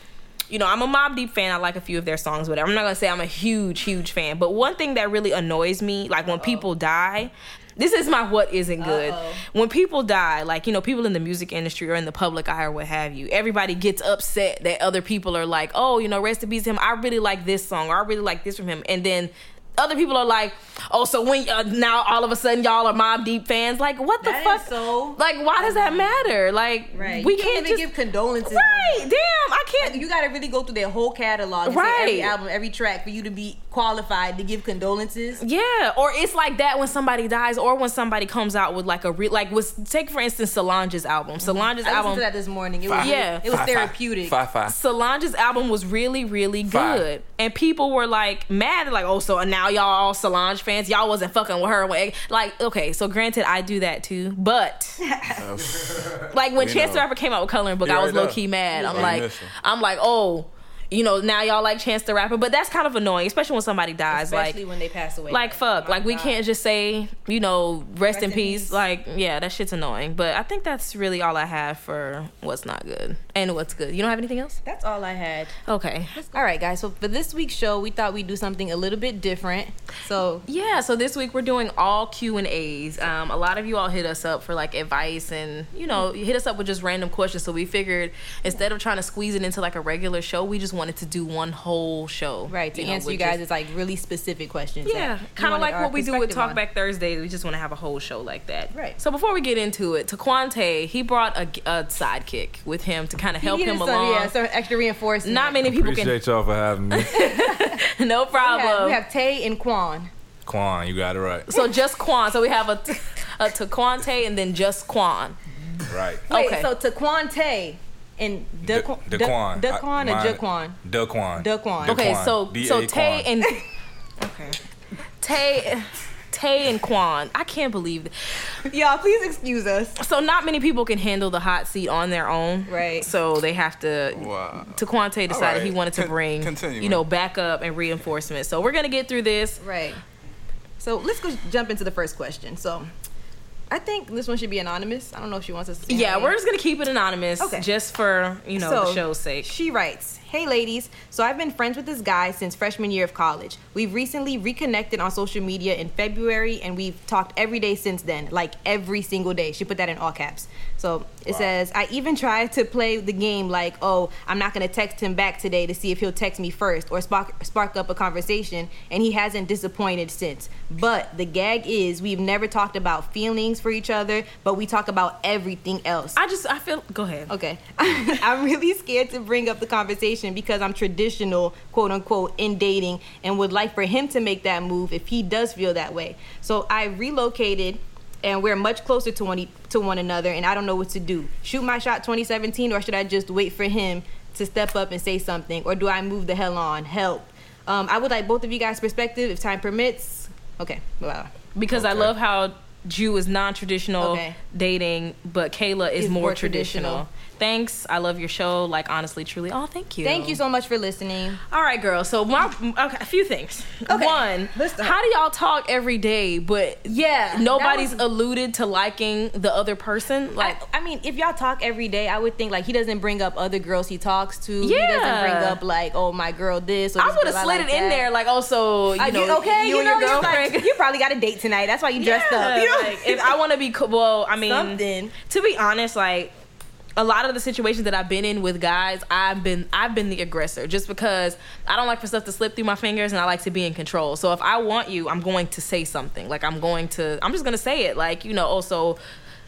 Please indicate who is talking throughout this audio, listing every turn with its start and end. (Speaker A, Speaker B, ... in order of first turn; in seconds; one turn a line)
Speaker A: 0.5-27.9
Speaker B: 6.3-6.7
Speaker B: 8.8-9.4
Speaker B: 24.2-26.3
Speaker B: 26.9-29.1
Speaker A: 28.4-30.0
Speaker B: 29.8-35.4
Speaker A: 31.6-32.4
Speaker A: 35.4-42.2
Speaker B: 41.4-44.4
Speaker C: 42.9-44.8
Speaker A: 43.0-43.6
Speaker A: 44.7-55.0
Speaker C: 46.7-47.1
Speaker B: 55.0-55.5
Speaker C: 55.4-57.1
Speaker A: 56.3-64.6
Speaker C: 57.8-59.5
Speaker B: 58.7-59.2
Speaker B: 64.1-66.4
Speaker A: 65.3-74.6
Speaker B: 68.1-68.8
Speaker B: 74.6-75.6
Speaker A: 75.7-76.2
Speaker B: 76.2-80.5
Speaker A: 80.5-93.4
Speaker B: 92.5-96.6
Speaker A: 94.8-104.3
Speaker B: 98.7-99.0
Speaker B: 103.4-105.6
Speaker A: 105.2-106.2
Speaker D: 105.6-107.2
Speaker A: 106.9-109.0
Speaker B: 107.2-107.8
Speaker B: 108.3-110.1
Speaker D: 110.5-111.5
Speaker A: 111.5-115.4
Speaker D: 115.9-116.2
Speaker A: 116.3-116.7
Speaker B: 116.3-120.8
Speaker D: 118.6-123.3
Speaker B: 121.4-122.1
Speaker A: 121.8-123.6
Speaker A: 124.2-124.6
Speaker A: 125.2-128.1
Speaker B: 128.7-130.0
Speaker A: 130.0-139.6
Speaker B: 132.7-133.1
Speaker C: 134.2-137.0
Speaker B: 139.6-140.0
Speaker B: 140.8-142.9
Speaker B: 143.7-146.3
Speaker A: 145.9-149.5
Speaker B: 147.4-147.7
Speaker B: 148.6-176.2
Speaker A: 176.2-177.3
Speaker B: 177.3-201.3
Speaker A: 201.6-210.4
Speaker D: 201.7-202.1
Speaker B: 204.0-204.4
Speaker B: 206.0-207.1
Speaker B: 210.0-211.4
Speaker A: 211.5-220.6
Speaker B: 213.9-215.0
Speaker B: 216.9-218.0
Speaker B: 220.4-228.1
Speaker A: 224.6-225.6
Speaker A: 227.0-230.8
Speaker B: 229.0-233.4
Speaker A: 232.0-236.3
Speaker B: 234.5-235.1
Speaker A: 237.0-249.0